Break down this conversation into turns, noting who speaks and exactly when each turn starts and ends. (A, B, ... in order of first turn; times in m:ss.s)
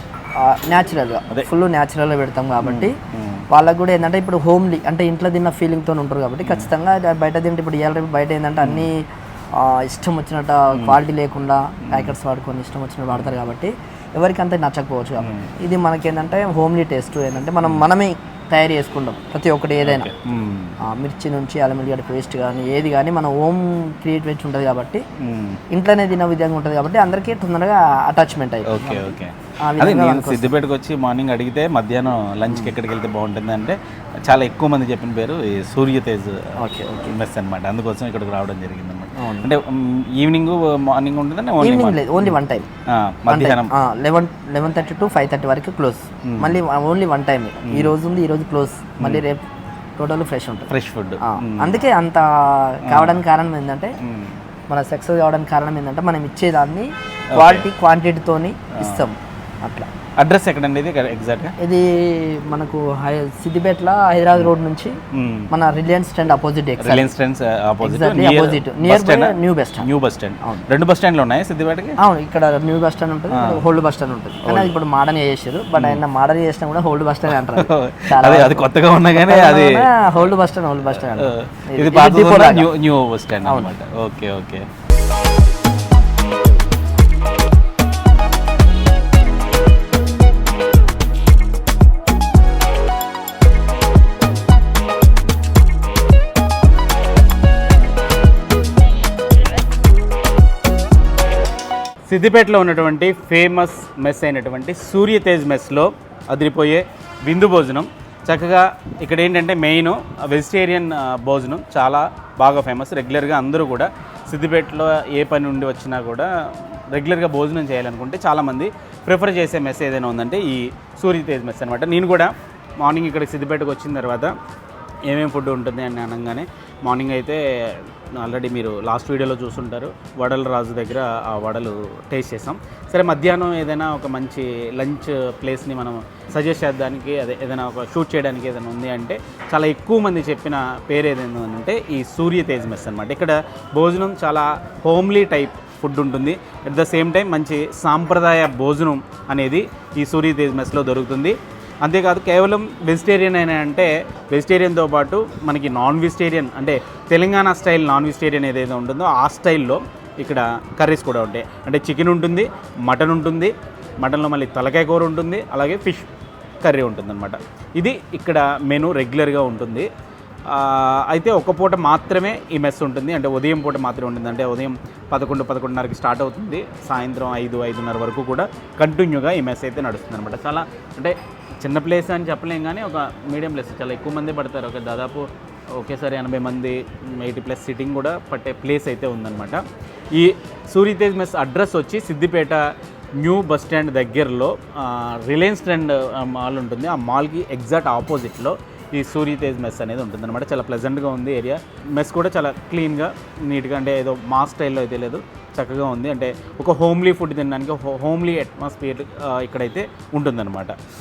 0:00.4-0:02.9 A
0:02.6-0:03.5 B
0:03.5-0:20.1 A
0:06.4-0:06.7 B
0:08.6-0:08.9 B
0:11.9-0:12.1 B
0:15.2-0:15.5 B
0:19.8-0:20.8 B
0:20.8-0:25.0 A
0:25.2-0:25.6 B
0:25.7-0:29.1 A
0:28.6-0:42.4 B
0:29.6-0:30.6 A
0:36.6-0:37.2 A
0:39.2-0:39.5 A
0:41.6-0:42.7 A
0:42.9-0:43.7 B
0:43.3-0:49.4 A
0:46.2-0:46.6 B
0:47.6-0:47.9 B
0:50.0-0:54.0 A
0:50.7-0:51.8 B
0:52.8-0:53.2 B
0:54.0-0:54.4 B
0:54.7-0:59.9 A
0:57.3-0:57.7 B
0:58.7-0:59.1 B
1:00.2-1:01.5 B
1:01.6-1:05.0 A
1:05.1-1:05.5 B
1:05.5-1:07.1 A
1:06.8-1:11.9 B
1:07.8-1:09.9 A
1:12.0-1:22.7 A
1:13.3-1:13.6 B
1:14.4-1:14.7 B
1:15.7-1:16.0 B
1:17.3-1:19.9 B
1:20.9-1:24.6 B
1:23.4-1:23.7 A
1:42.1-1:56.3 B
1:56.9-2:04.3 B
2:05.1-2:46.1 B
2:46.6-2:49.9 B
2:50.5-3:30.8 B